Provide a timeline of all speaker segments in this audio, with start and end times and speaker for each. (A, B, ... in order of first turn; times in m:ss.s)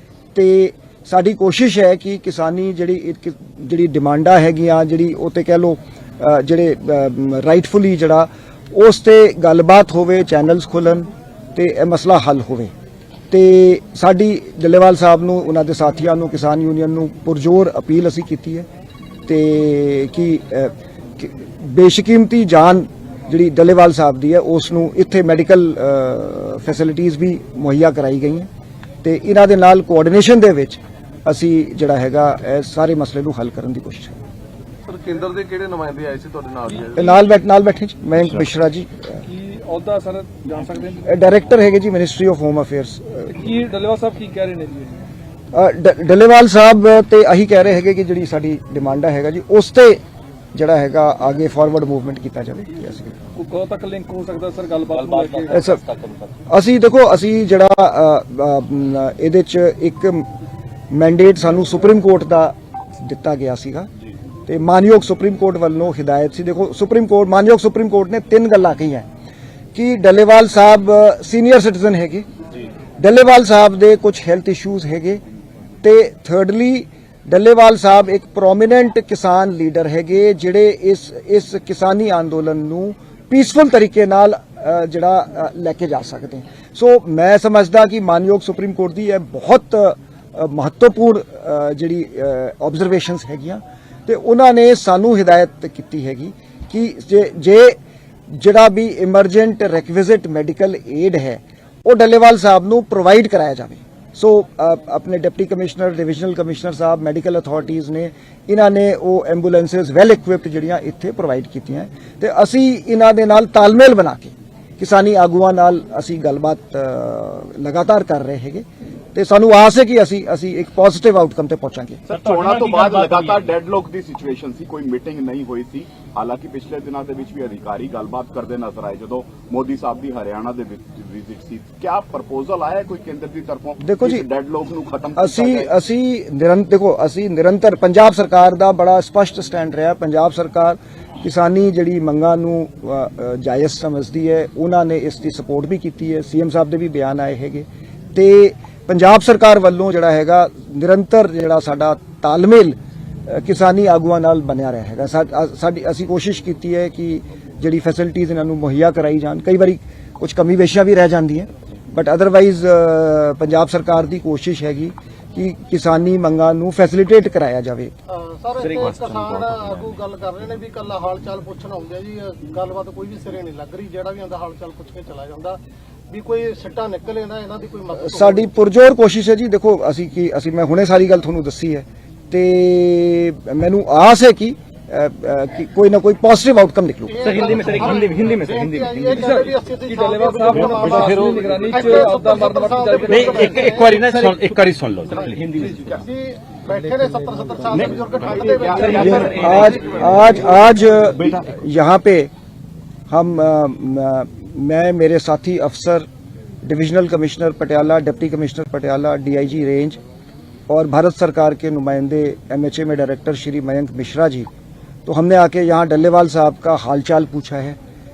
0:00.4-0:12.7 A
0:13.3-0:18.7 A
0:19.3-0:28.5 A
0:29.0-0:34.2 A
0:34.9-0:37.1 B
0:36.9-0:39.2 A
0:39.2-0:41.1 C
0:41.0-0:43.4 A
0:43.3-0:45.1 C
0:45.5-0:50.0 A
0:50.5-0:53.2 A
0:53.4-0:55.6 C
0:54.9-0:56.3 D
0:55.5-0:55.8 A
0:56.5-1:00.3 A
1:00.9-1:03.9 A
1:04.5-1:09.1 A
1:09.8-1:12.3 A
1:13.0-1:15.2 A
1:15.8-1:37.8 A
1:38.3-2:02.0 A
2:02.1-2:15.7 E
2:02.1-2:03.4 D
2:13.8-2:14.2 A
2:15.2-2:47.9 A
2:48.1-2:58.5 F
2:48.5-2:50.0 D
2:58.0-3:07.8 A
3:07.1-3:14.1 F
3:07.2-3:09.3 D
3:09.2-3:13.3 C
3:10.5-3:12.0 D
3:13.1-3:16.0 D
3:15.8-3:19.8 F
3:17.7-3:20.6 D
3:18.2-3:20.5 E
3:19.0-3:22.3 A
3:23.1-3:26.1 A
3:26.6-3:30.0 A
3:30.7-3:34.5 A
3:35.1-3:37.8 A